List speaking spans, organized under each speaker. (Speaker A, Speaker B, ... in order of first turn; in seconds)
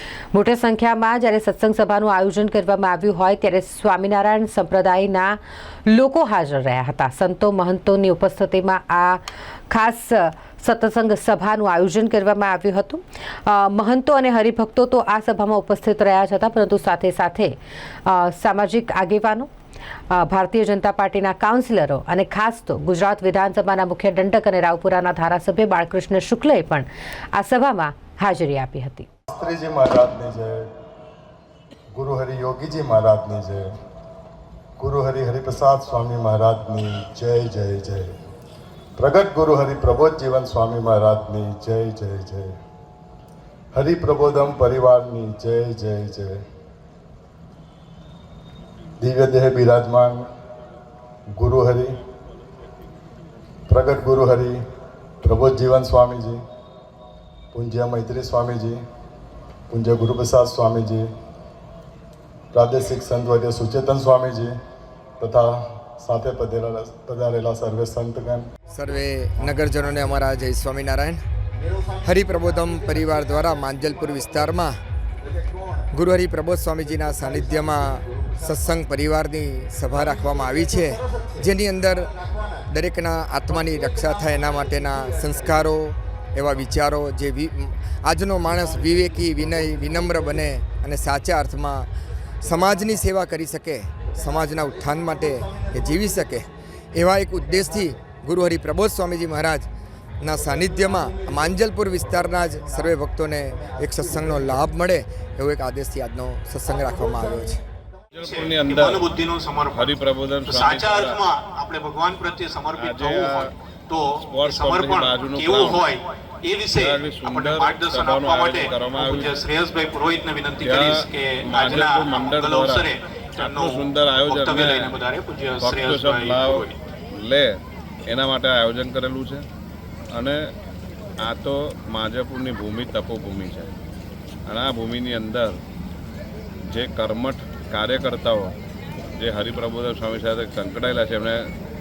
Speaker A: 0.3-19.5, 20.1-29.1
Speaker B: 29.3-30.7, 31.9-33.7, 34.8-38.1, 39.0-42.5, 43.7-46.4, 49.0-50.2, 51.4-51.9, 53.7-54.6, 55.2-56.4, 57.5-58.8, 59.7-61.1, 62.5-64.5, 65.2-68.5
Speaker C: 68.7-71.2, 72.0-74.8, 75.9-91.9, 92.4-99.7, 100.2-107.6
Speaker D: 108.1-109.2, 109.7-111.2, 112.8-113.5, 114.2-115.9, 116.7-119.4, 120.6-125.0, 125.6-129.5, 130.1-130.4, 131.2-133.7, 134.5-135.6, 136.7-138.6, 139.2-141.5
Speaker E: 108.2-126.7